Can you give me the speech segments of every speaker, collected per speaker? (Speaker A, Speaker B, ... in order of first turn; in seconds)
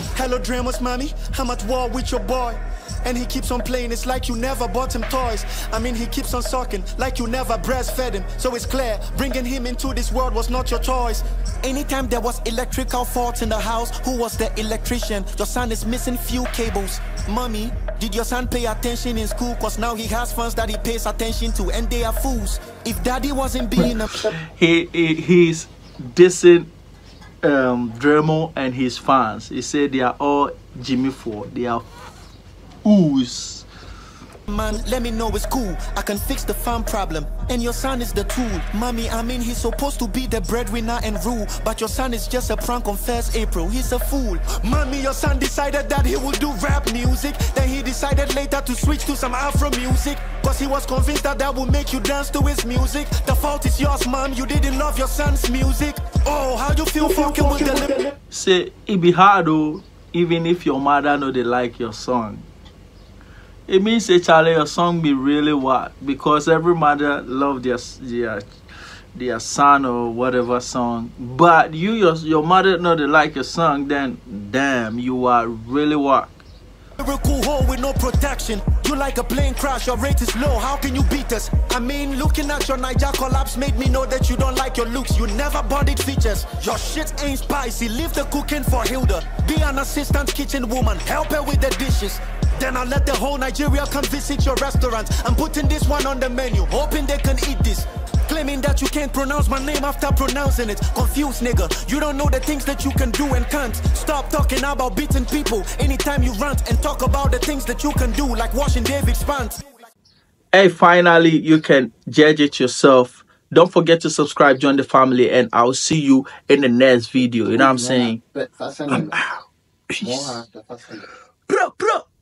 Speaker A: 0.1-24.4, 34.5-58.1, 77.0-109.7
Speaker B: 24.3-26.7, 27.4-31.9, 32.9-33.7, 58.3-62.5, 63.7-68.5, 69.2-76.4, 110.5-118.2, 118.9-120.4, 121.5-122.0
Speaker C: 117.6-119.1, 120.0-121.0